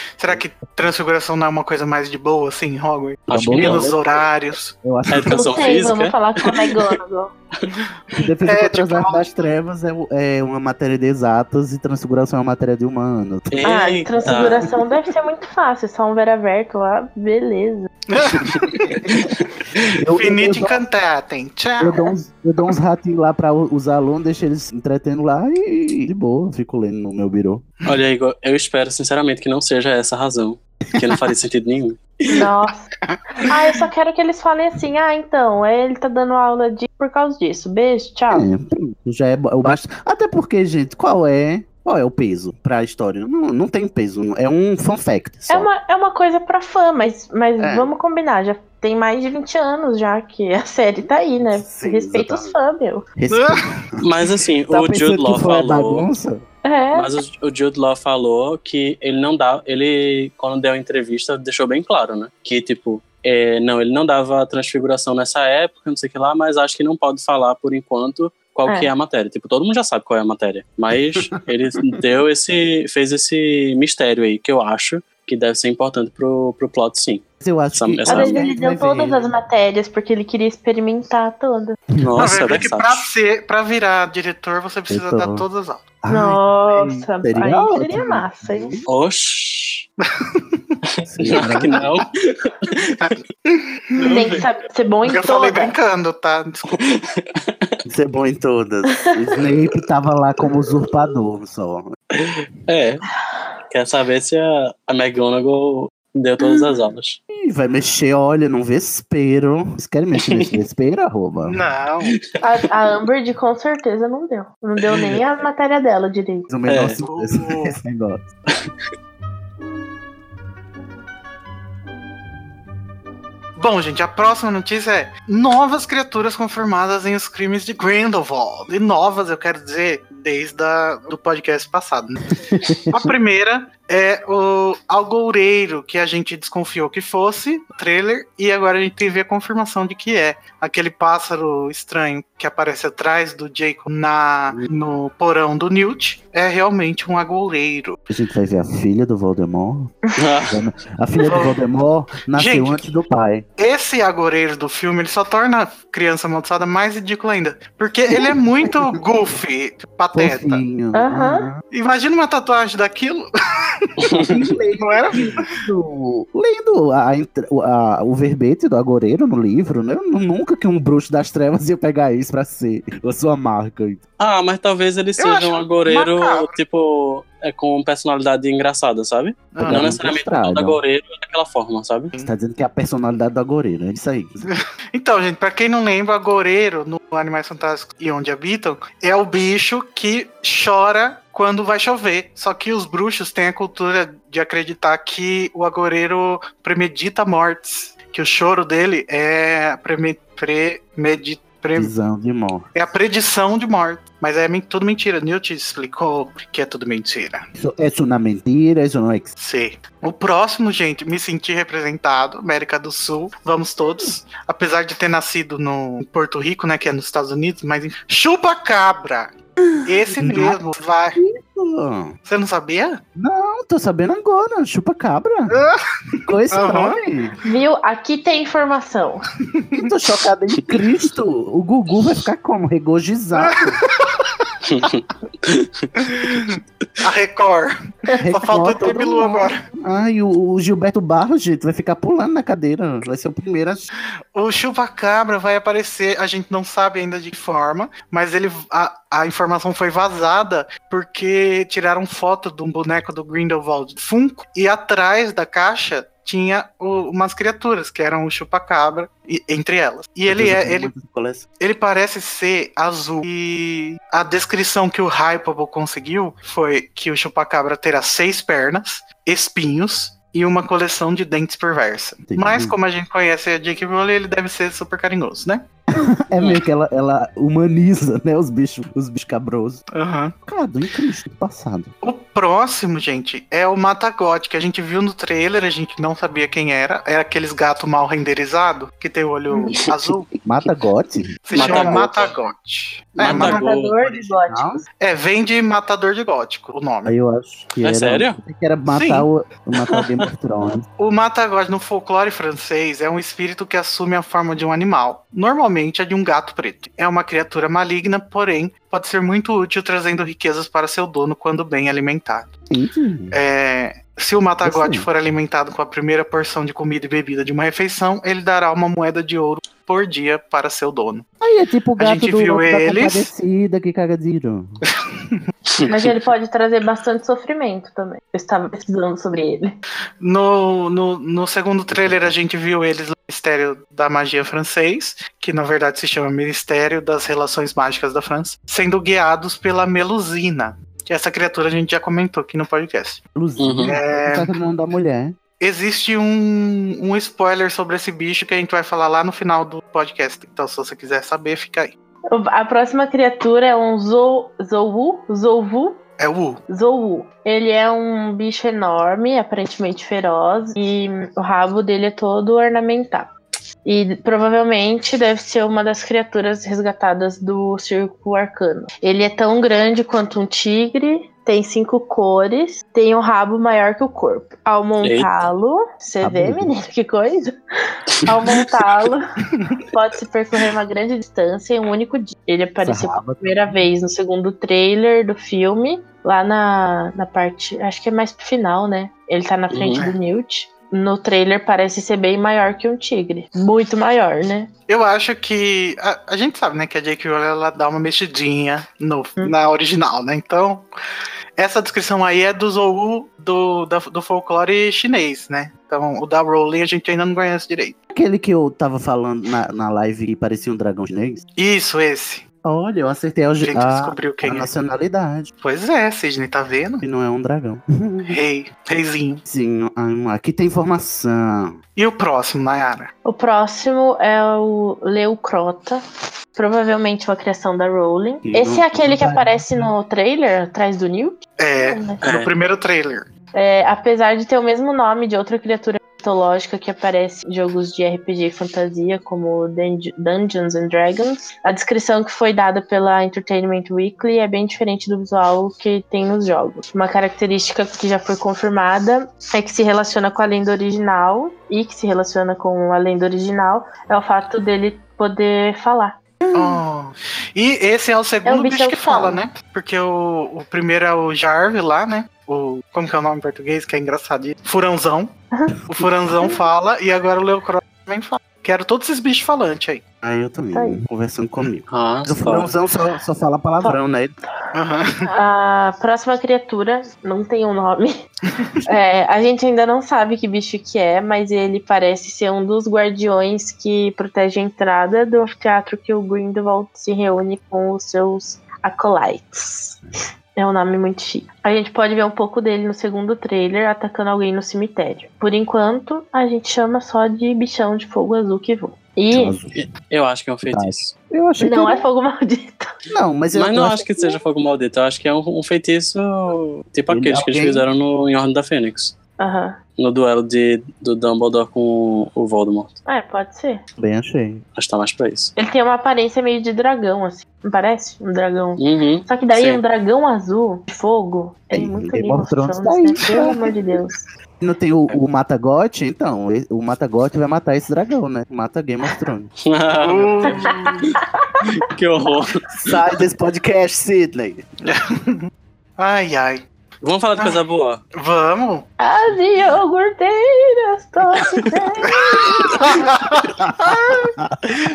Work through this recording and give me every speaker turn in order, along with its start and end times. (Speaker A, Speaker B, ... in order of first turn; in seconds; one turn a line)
Speaker A: 0.2-4.7
Speaker B: 3.3-3.9
Speaker C: 3.3-4.0
Speaker C: 4.8-5.9
Speaker B: 5.1-7.0
Speaker D: 5.3-7.3
Speaker C: 8.2-13.5
Speaker A: 8.4-9.5
Speaker B: 13.5-14.7
Speaker D: 13.6-17.9
Speaker A: 18.1-19.0
Speaker C: 18.9-20.8
Speaker A: 20.1-22.0
Speaker C: 21.8-27.7
Speaker B: 27.9-32.5
Speaker C: 31.0-31.2
Speaker D: 32.3-32.8
Speaker D: 33.5-38.5
Speaker C: 38.3-45.7
Speaker D: 45.5-53.1
Speaker C: 47.6-47.9
Speaker C: 51.0-52.5
Speaker C: 53.2-54.0
Speaker A: 53.3-53.6
Speaker B: 54.0-56.1
Speaker C: 54.7-56.4
Speaker D: 56.6-57.1
Speaker B: 56.9-77.2
Speaker C: 77.4-79.3
Speaker B: 77.8-78.5
Speaker D: 78.1-81.8
Speaker B: 82.0-83.0
Speaker A: 82.2-85.8
Speaker C: 84.9-85.5
Speaker C: 86.0-88.9
Speaker D: 86.1-88.8
Speaker B: 88.9-89.9
Speaker A: 90.2-90.6
Speaker B: 91.0-92.8
Speaker C: 91.1-91.9
Speaker A: 91.3-91.8
Speaker A: 93.0-94.3
Speaker B: 94.0-94.5
Speaker D: 94.0-95.8
Speaker A: 95.0-96.8
Speaker B: 96.7-97.8
Speaker C: 97.9-101.9
Speaker D: 98.9-99.2
Speaker B: 102.1-103.0
Speaker B: 103.7-107.2
Speaker C: 107.3-111.6
Speaker B: 110.2-110.5
Speaker A: 111.5-112.1
Speaker D: 112.4-116.5
Speaker B: 114.9-115.2
Speaker C: 116.5-118.2
Speaker B: 116.7-117.0
Speaker A: 117.0-117.8
Speaker A: 123.6-132.2
Speaker C: 132.5-133.1
Speaker A: 132.9-148.0
Speaker C: 148.1-153.5
Speaker B: 150.2-150.6
Speaker A: 151.3-151.6
Speaker A: 152.3-152.8
Speaker A: 153.6-160.6
Speaker C: 158.1-158.7
Speaker C: 160.1-161.6
Speaker D: 160.9-161.5
Speaker A: 161.7-163.3
Speaker B: 164.1-164.3
Speaker C: 164.1-174.0
Speaker A: 164.8-165.4
Speaker B: 174.2-182.1
Speaker A: 175.2-176.6
Speaker A: 179.5-179.9
Speaker C: 179.6-180.8
Speaker C: 182.2-184.5
Speaker A: 184.9-201.9
Speaker C: 201.8-202.7
Speaker A: 202.7-207.5
Speaker C: 207.6-209.3
Speaker A: 209.4-221.2
Speaker C: 219.6-220.6
Speaker C: 221.1-222.1
Speaker A: 222.3-223.0
Speaker C: 223.2-225.6
Speaker C: 226.3-227.4
Speaker A: 226.5-227.0
Speaker D: 227.4-229.2
Speaker A: 229.6-229.9
Speaker C: 229.8-233.8
Speaker A: 233.4-234.3
Speaker B: 234.7-235.9
Speaker A: 236.0-237.7
Speaker C: 238.2-243.9
Speaker A: 238.3-239.6
Speaker A: 244.3-260.9
Speaker C: 260.3-261.4
Speaker A: 261.6-275.7
Speaker C: 272.3-272.8
Speaker C: 275.9-279.8
Speaker A: 279.9-280.3
Speaker C: 280.4-281.9
Speaker A: 282.0-290.3
Speaker C: 290.3-292.3
Speaker A: 291.5-293.6
Speaker B: 291.5-292.3
Speaker B: 293.2-294.0
Speaker C: 293.2-294.8
Speaker D: 293.3-294.8
Speaker A: 295.0-297.1
Speaker C: 297.1-300.9
Speaker B: 297.8-298.4
Speaker A: 298.9-299.3
Speaker B: 299.8-300.1
Speaker A: 301.0-312.5
Speaker C: 312.7-313.4
Speaker A: 313.3-321.2
Speaker C: 314.6-315.1
Speaker C: 321.4-324.8
Speaker A: 322.0-323.3
Speaker B: 325.8-326.1
Speaker D: 325.9-329.8
Speaker A: 330.2-343.2
Speaker C: 343.4-345.4
Speaker B: 343.6-344.0
Speaker A: 343.8-344.5
Speaker A: 345.6-351.9
Speaker D: 352.3-356.0
Speaker A: 356.2-356.6
Speaker D: 356.7-363.3
Speaker D: 363.8-379.3
Speaker B: 375.0-375.3
Speaker C: 376.2-376.7
Speaker D: 379.9-394.7
Speaker C: 382.8-383.8
Speaker B: 389.7-390.0
Speaker A: 394.9-400.9
Speaker A: 401.6-408.0
Speaker C: 408.1-411.4
Speaker A: 411.6-412.4
Speaker C: 412.6-415.5
Speaker A: 413.6-414.7
Speaker A: 415.6-417.0
Speaker C: 417.0-418.4
Speaker A: 418.3-419.4
Speaker C: 419.4-421.8
Speaker A: 422.0-423.1
Speaker D: 423.2-426.0
Speaker D: 426.5-432.2
Speaker C: 428.4-429.9
Speaker A: 431.6-433.3
Speaker B: 432.2-432.5
Speaker D: 433.5-456.2
Speaker A: 456.5-465.3
Speaker D: 458.4-459.4
Speaker A: 465.9-470.0
Speaker C: 470.2-474.3
Speaker D: 470.7-471.0
Speaker B: 471.9-472.7
Speaker A: 474.7-475.3
Speaker D: 475.2-478.3
Speaker D: 478.9-490.0
Speaker D: 490.6-499.6
Speaker C: 499.3-499.7
Speaker B: 499.7-501.1
Speaker C: 500.7-502.1
Speaker D: 501.6-503.0
Speaker C: 503.1-504.3
Speaker B: 503.5-509.1
Speaker C: 507.1-507.9
Speaker D: 509.4-509.8
Speaker B: 510.0-513.0
Speaker D: 513.1-513.8
Speaker C: 514.0-514.6
Speaker B: 514.8-515.5
Speaker D: 515.6-524.2
Speaker B: 518.8-519.8
Speaker C: 521.7-523.7
Speaker C: 524.6-529.5
Speaker B: 529.7-530.7
Speaker A: 530.0-531.0
Speaker D: 530.4-531.7
Speaker B: 531.6-532.6
Speaker C: 532.7-534.6
Speaker A: 534.9-536.6
Speaker B: 537.0-538.0
Speaker A: 538.2-538.9
Speaker D: 539.0-543.1
Speaker A: 542.2-543.4